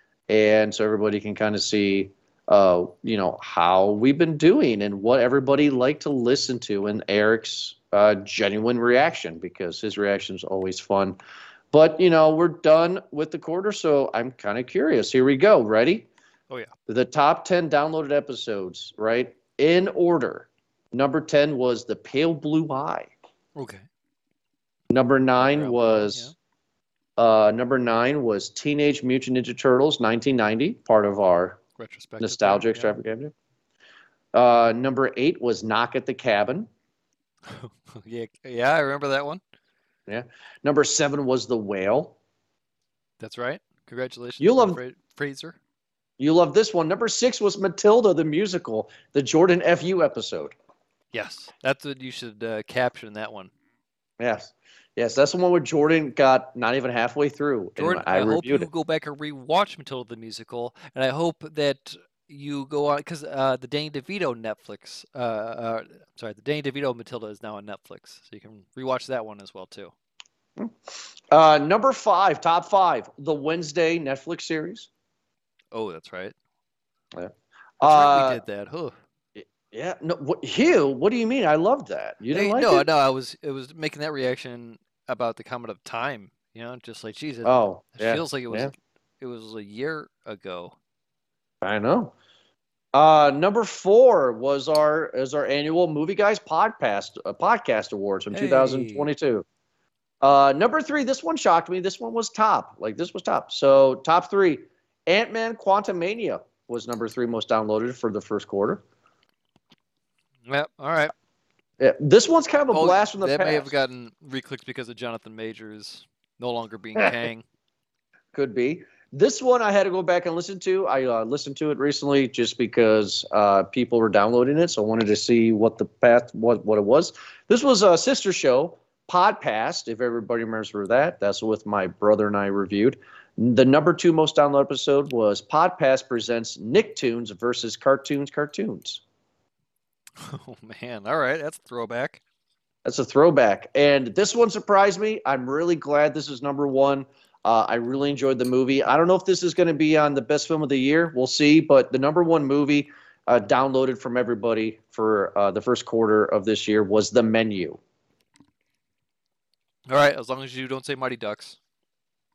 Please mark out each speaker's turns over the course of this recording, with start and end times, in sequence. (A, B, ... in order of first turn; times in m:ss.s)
0:00.3-0:11.2 A
0:11.7-0:16.1 A
0:16.9-0:23.1 A
0:23.6-0:23.8 B
0:24.9-0:26.3 A
0:25.4-0:26.3 B
0:27.2-0:31.6 A
0:31.8-0:33.0 B
0:32.2-0:33.3 A
0:34.3-0:36.7 A
0:37.5-0:39.4 B
0:40.1-0:42.2 A
0:43.2-0:45.6 B
0:44.4-0:44.8 A
0:46.2-0:50.6 A
0:51.1-0:53.5 B
0:54.2-0:58.7 A
0:57.8-1:09.9 B
1:11.3-1:14.9 A
1:15.7-1:16.3 B
1:17.1-1:18.4 A
1:17.8-1:18.9 B
1:19.4-1:22.9 A
1:22.3-1:30.8 B
1:27.4-1:28.7 A
1:31.6-1:32.1 A
1:32.9-1:39.4 A
1:38.3-1:39.1 B
1:40.2-1:48.8 A
1:50.5-1:51.1 B
1:51.8-1:53.7 A
1:52.7-1:57.4 B
1:58.3-2:19.0 A
2:20.2-2:22.2 B
2:22.8-2:37.8 A
2:39.9-2:41.6 B